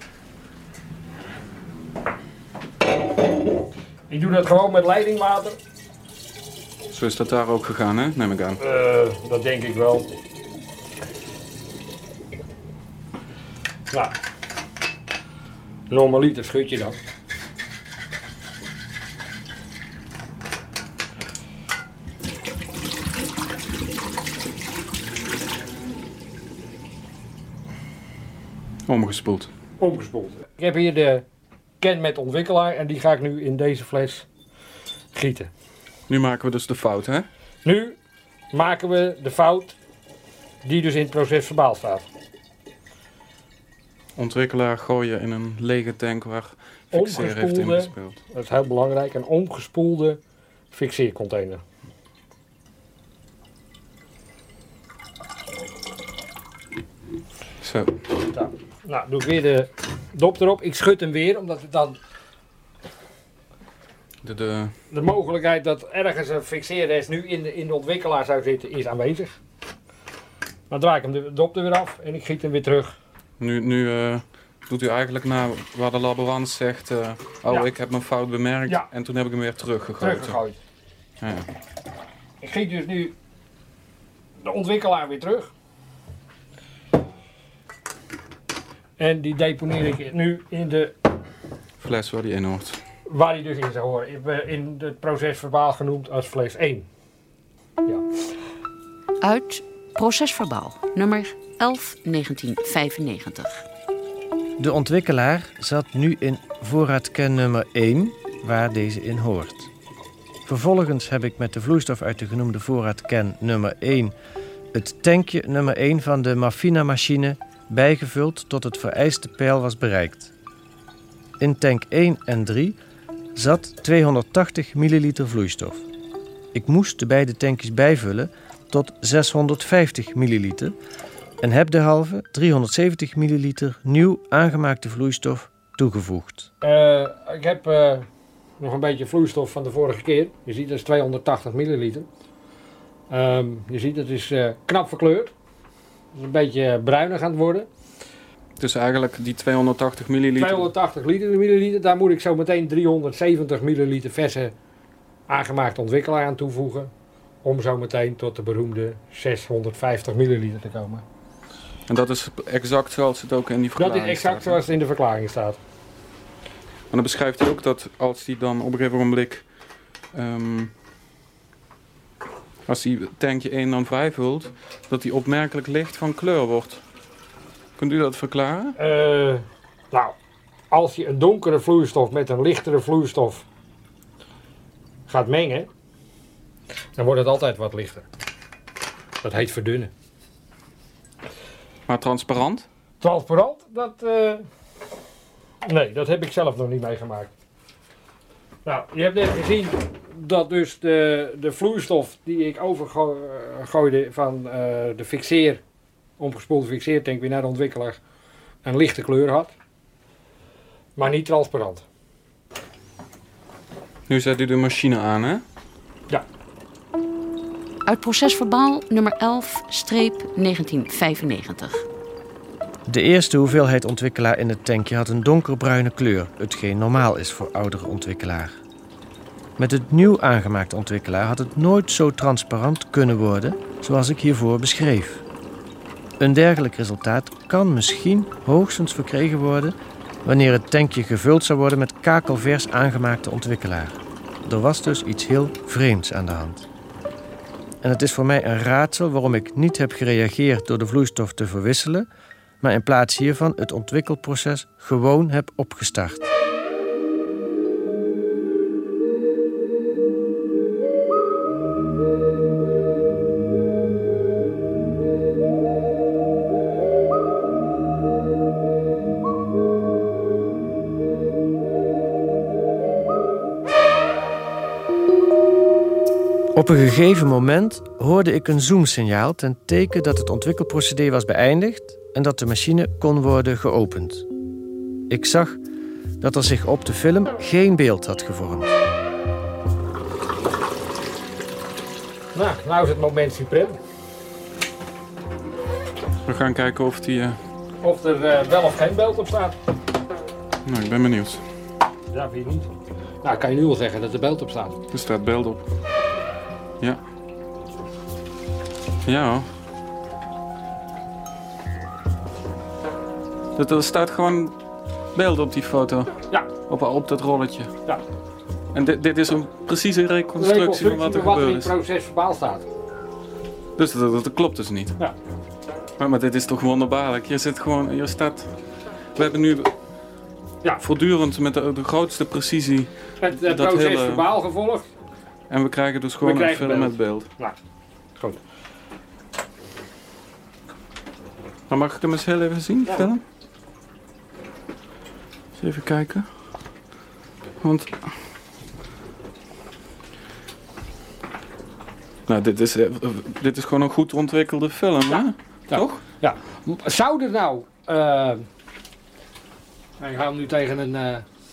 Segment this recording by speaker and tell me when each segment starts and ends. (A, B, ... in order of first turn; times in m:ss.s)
0:04.1-0:05.6 A
0:06.9-0:08.6 B
0:08.6-0:10.1 A
0:15.9-0:17.0 A
0:28.9-0:29.5 B
0:29.8-0:31.2 A
0:31.8-0:34.3 A
0:35.1-0:35.5 A
0:36.1-0:37.3 B
0:37.6-0:38.0 A
0:38.5-0:39.7 A
0:40.6-0:42.0 A
0:44.2-0:48.2 B
0:46.9-0:50.2 A
0:50.7-0:51.6 A
0:57.6-0:58.0 B
0:58.3-1:02.0 A
1:04.2-1:04.7 B
1:04.9-1:09.4 A
1:10.7-1:12.9 A
1:13.4-1:20.4 B
1:20.0-1:20.6 A
1:21.2-1:21.4 B
1:22.4-1:23.1 A
1:24.4-1:25.5 A
1:29.0-1:30.9 A
1:31.8-1:32.8 B
1:33.1-1:36.9 A
1:39.2-1:43.6 C
1:44.6-1:49.7 D
1:50.4-1:54.1 D
1:54.7-2:00.3 D
2:01.4-2:02.8 D
2:03.3-2:05.8 D
2:06.5-2:10.7 D
2:11.4-2:16.5 D
2:16.6-2:18.1 A
2:18.6-2:22.1 A
2:23.1-2:25.3 A
2:26.1-2:27.7 A
2:28.6-2:30.7 B
2:30.4-2:34.5 A
2:35.3-2:36.9 A
2:37.4-2:41.0 A
2:41.9-2:44.6 B
2:43.8-2:45.6 A
2:46.9-2:49.4 B
2:50.1-2:50.7 B
2:52.6-2:56.8 B
2:57.8-2:58.8 B
2:58.8-3:00.1 A
3:00.7-3:03.4 A
3:05.1-3:05.7 A
3:07.0-3:08.0 A
3:09.2-3:09.9 A
3:11.9-3:12.6 B
3:13.0-3:14.4 A
3:15.6-3:17.3 A
3:18.6-3:25.6 A
3:26.2-3:28.0 A
3:28.6-3:29.5 A
3:31.0-3:31.8 A
3:34.1-3:35.4 B
3:37.9-3:41.8 C
3:42.9-3:48.6 D
3:49.6-3:55.2 D
3:56.2-4:06.6 D
4:07.8-4:12.1 D
4:12.6-4:16.3 D
4:36.6-4:44.3 D
4:45.1-4:45.6 D
4:46.2-4:48.8 D
4:52.3-4:53.8 A
4:56.3-4:57.4 B
4:57.8-4:59.6 A
5:00.6-5:01.4 B
5:02.1-5:02.7 A
5:03.2-5:04.8 A
5:04.9-5:05.6 B
5:09.0-5:09.5 B
5:13.6-5:14.6 B
5:15.1-5:17.7 B
5:18.7-5:21.7 B
5:20.4-5:22.6 A
5:23.8-5:25.0 B
5:26.0-5:28.6 B
5:29.1-5:29.7 B
5:30.8-5:34.3 B
5:33.2-5:34.9 A
5:35.5-5:37.3 B
5:36.2-5:37.6 A
5:41.7-5:43.2 B
5:45.6-5:46.3 B
5:47.6-5:48.1 B
5:52.3-5:56.0 B
5:55.1-5:58.5 A
6:00.0-6:01.2 A